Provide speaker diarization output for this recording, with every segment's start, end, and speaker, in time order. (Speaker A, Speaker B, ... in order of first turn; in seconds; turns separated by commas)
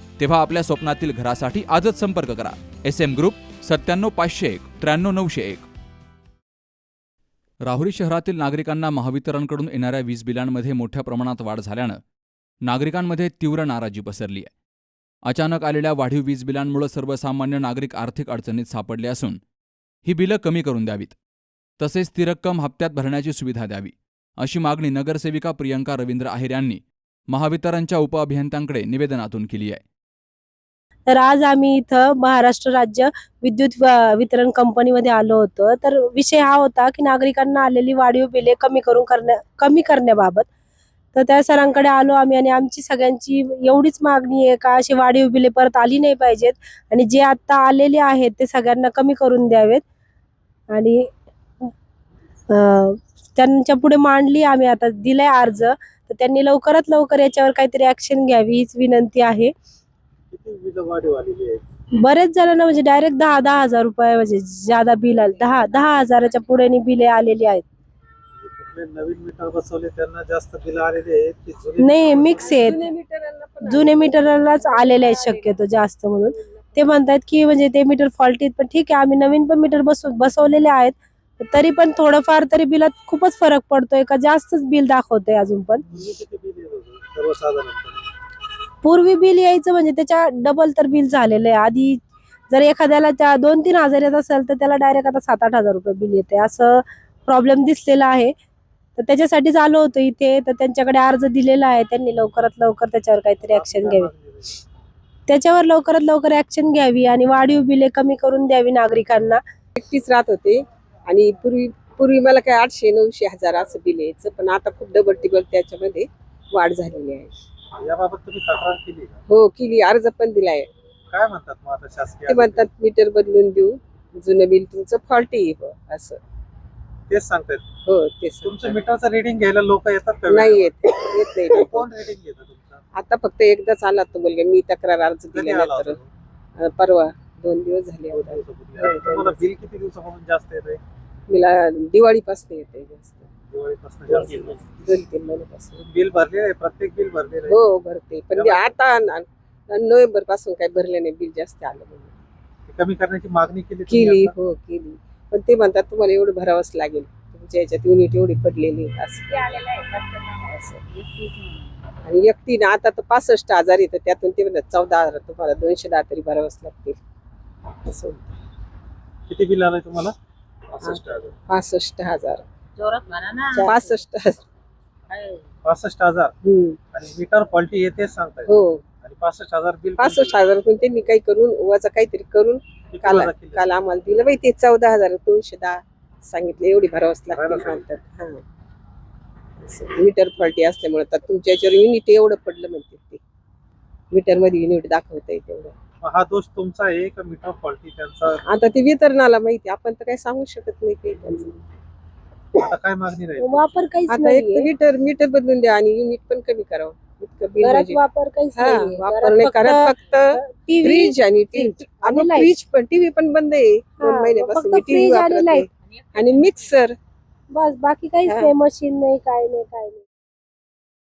Speaker A: 0.2-5.7, Speaker A: 7.7-12.0, Speaker A: 12.7-14.5, Speaker A: 15.3-19.4, Speaker A: 20.1-21.2, Speaker A: 21.8-29.8, Speaker B: 31.1-40.5, Speaker B: 41.1-49.8, Speaker B: 50.7-51.1, Speaker B: 52.5-59.5, Speaker C: 60.3-61.6, Speaker B: 62.0-67.7, Speaker C: 68.3-72.7, Speaker B: 71.8-72.9, Speaker D: 72.4-75.6, Speaker B: 73.6-85.8, Speaker D: 76.2-76.9, Speaker C: 85.9-88.1, Speaker B: 88.8-98.3, Speaker B: 99.0-104.1, Speaker C: 103.5-104.6, Speaker B: 105.3-109.4, Speaker D: 109.8-117.3, Speaker C: 117.8-119.2, Speaker D: 119.3-120.7, Speaker C: 121.1-122.7, Speaker D: 122.3-126.2, Speaker C: 127.1-127.7, Speaker D: 127.9-128.8, Speaker C: 128.4-130.8, Speaker D: 130.3-131.9, Speaker C: 131.5-132.8, Speaker D: 133.0-136.0, Speaker C: 135.3-136.1, Speaker D: 136.6-139.4, Speaker C: 138.1-140.8, Speaker D: 141.3-143.3, Speaker C: 143.5-144.8, Speaker D: 144.1-145.8, Speaker C: 145.8-147.6, Speaker D: 147.5-152.1, Speaker C: 148.3-148.7, Speaker C: 152.7-154.3, Speaker D: 153.9-160.9, Speaker D: 162.1-167.0, Speaker D: 167.8-168.4, Speaker C: 169.3-170.1, Speaker C: 170.7-171.4, Speaker D: 170.8-172.4, Speaker D: 173.6-174.4, Speaker C: 175.6-176.3, Speaker D: 176.4-176.8, Speaker C: 176.9-180.4, Speaker D: 178.5-178.8, Speaker D: 180.0-188.4, Speaker C: 182.9-183.7, Speaker C: 187.3-187.8, Speaker D: 189.6-193.2, Speaker D: 194.1-195.7, Speaker C: 196.0-198.4, Speaker D: 198.5-201.6, Speaker C: 202.6-203.7, Speaker B: 203.4-204.7, Speaker D: 204.1-208.0, Speaker B: 207.6-212.5, Speaker D: 208.6-217.0, Speaker B: 214.0-215.7, Speaker B: 217.5-220.0